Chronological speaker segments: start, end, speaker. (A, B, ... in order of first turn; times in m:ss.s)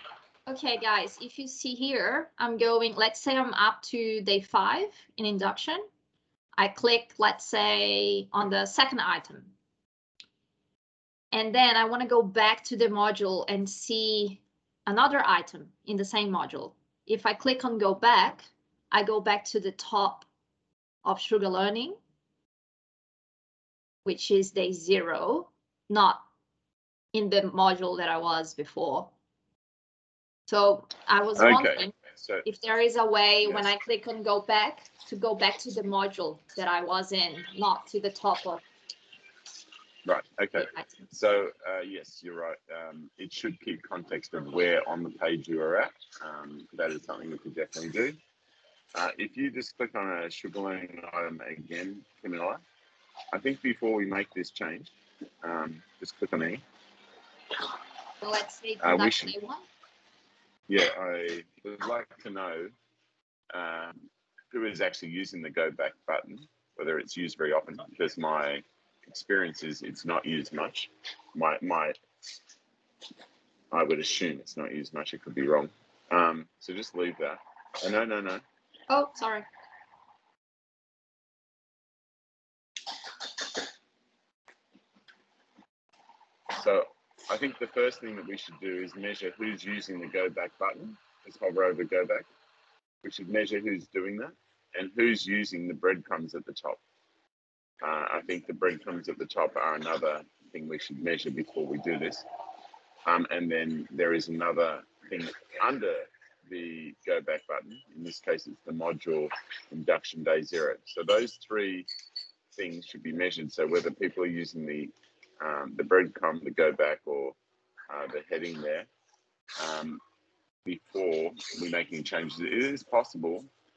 0:00.5-0:05.9 A
0:06.6-0:09.5 A
0:11.3-0:20.2 A
0:21.0-0:22.0 A
0:24.0-0:26.2 A
0:27.1-0:29.1 A
0:30.5-0:31.9 A
0:31.4-0:32.4 B
0:32.4-0:38.6 A
0:33.4-0:33.7 B
0:40.0-0:48.2 B
0:48.9-0:52.6 B
0:53.3-0:54.9 B
0:55.4-0:56.6 B
0:58.2-0:59.7 A
0:58.8-0:59.3 B
1:00.7-1:02.7 B
1:03.5-1:12.0 B
1:13.7-1:18.4 B
1:18.9-1:19.5 A
1:26.5-1:32.3 B
1:33.0-1:36.8 B
1:37.8-1:42.2 B
1:43.0-1:51.9 B
1:52.5-1:57.4 B
1:57.9-1:58.9 B
1:59.6-2:00.0 B
2:00.6-2:03.5 B